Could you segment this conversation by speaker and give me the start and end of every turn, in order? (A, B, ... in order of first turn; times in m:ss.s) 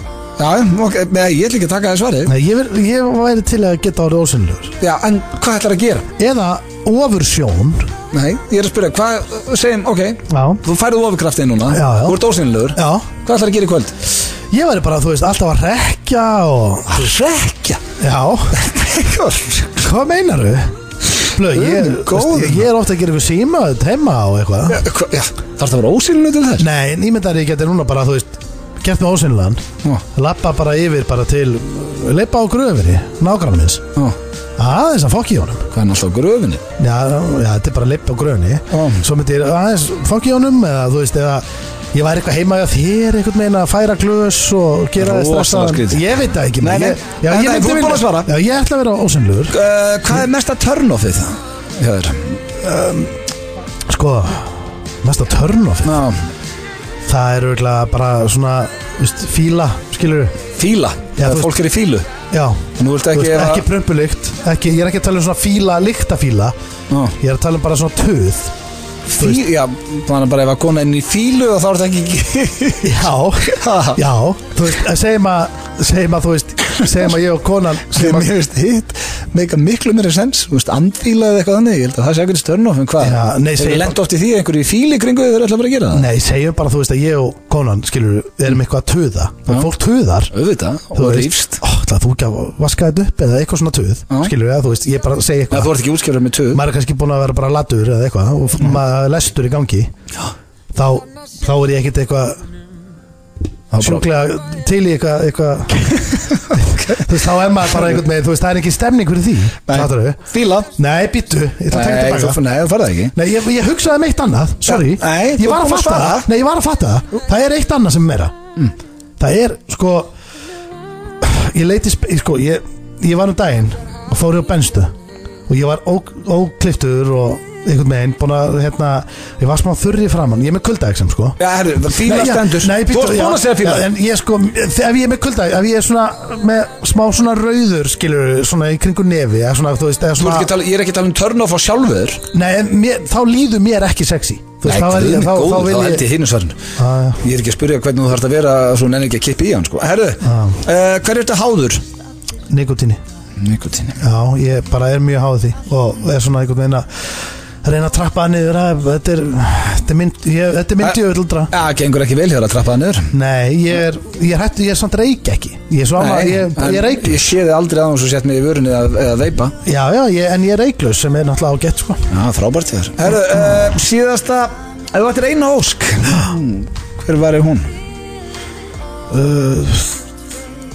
0:00.4-0:02.3 A
0:02.2-0:04.8 B
0:04.8-0:06.1 A
0:06.2-0:07.9 B
0:08.1-0:14.0 A
0:10.3-0:10.6 B
0:11.7-0:12.2 B
0:12.7-0:13.1 B
0:14.5-0:17.1 B
0:16.9-0:17.8 A
0:18.0-0:18.6 B
0:18.5-0:19.7 A
0:19.8-0:24.8 B
0:21.5-0:22.6 A
0:24.7-0:26.6 A
0:26.6-0:33.8 B
0:34.6-0:35.7 B
0:35.7-0:36.6 A
0:36.8-0:49.6 B
0:38.7-0:39.0 A
0:45.0-0:46.0 A
0:46.6-0:48.3 A
0:49.5-0:52.4 A
0:52.6-0:53.2 B
0:53.9-0:56.0 B
0:55.8-0:56.2 A
0:57.0-1:00.4 B
1:00.6-1:02.0 A
1:01.2-1:01.5 B
1:02.3-1:06.5 B
1:02.8-1:03.6 A
1:06.9-1:07.2 A
1:07.2-1:08.5 B
1:09.1-1:14.0 A
1:12.8-1:18.3 B
1:17.9-1:26.1 A
1:23.0-1:24.0 B
1:25.9-1:30.3 B
1:30.3-1:31.6 A
1:30.9-1:35.7 B
1:35.5-1:36.6 A
1:36.5-1:39.9 B
1:40.7-1:42.4 B
1:43.7-1:44.0 A
1:43.7-1:50.2 B
1:46.4-1:47.0 A
1:49.7-1:50.7 A
1:50.8-1:52.4 B
1:51.7-1:53.1 A
1:53.1-1:58.3 B
1:54.6-1:56.3 A
1:59.2-2:00.1 B
2:01.2-2:04.9 B
2:05.5-2:11.4 B
2:11.4-2:13.8 A
2:11.9-2:20.5 B
2:20.2-2:22.2 A
2:22.3-2:26.0 B
2:24.6-2:26.6 A
2:26.8-2:27.2 B
2:27.2-2:31.8 A
2:30.2-2:30.6 B
2:32.5-2:33.0 B
2:33.4-2:34.0 A
2:34.0-2:36.9 B
2:37.6-2:41.5 B
2:41.5-2:43.1 A
2:43.1-2:47.3 B
2:46.0-2:49.5 A
2:49.6-2:52.0 B
2:52.1-2:57.7 A
2:59.1-3:00.0 B